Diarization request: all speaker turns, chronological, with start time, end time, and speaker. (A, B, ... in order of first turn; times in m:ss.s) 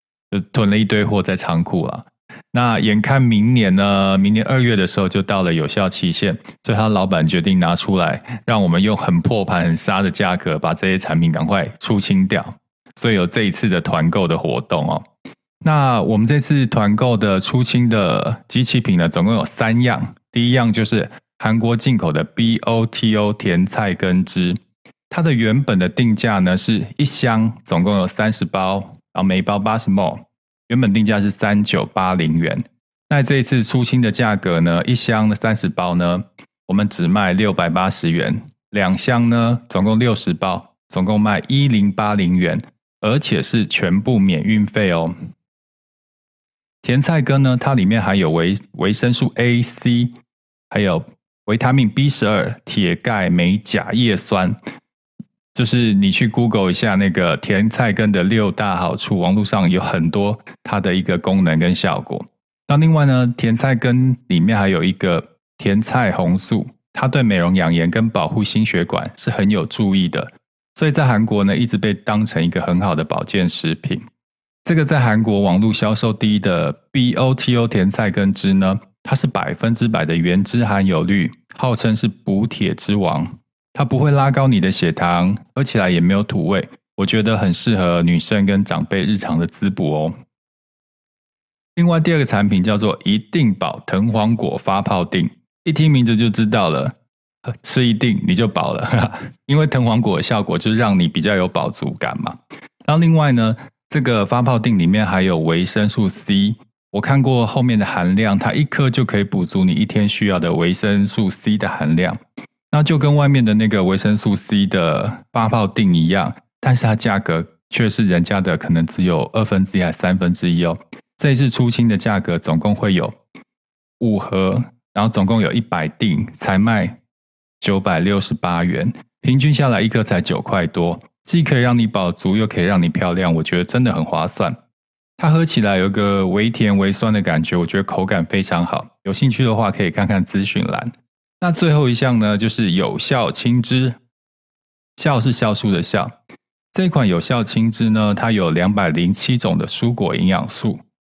0:00.3-0:15.0 A
0:15.6-0:24.6 A
0:25.1-0:45.1 A
0:46.8-0:50.1 A
0:50.7-0:54.6 A
0:55.6-1:14.0 A
1:14.6-1:30.2 A
1:31.8-1:36.9 A
1:37.5-1:52.2 A
1:52.7-2:03.2 A
2:04.0-2:07.0 A
2:07.6-2:14.6 A
2:15.2-2:24.0 A
2:25.0-2:26.1 A
2:26.7-2:30.8 A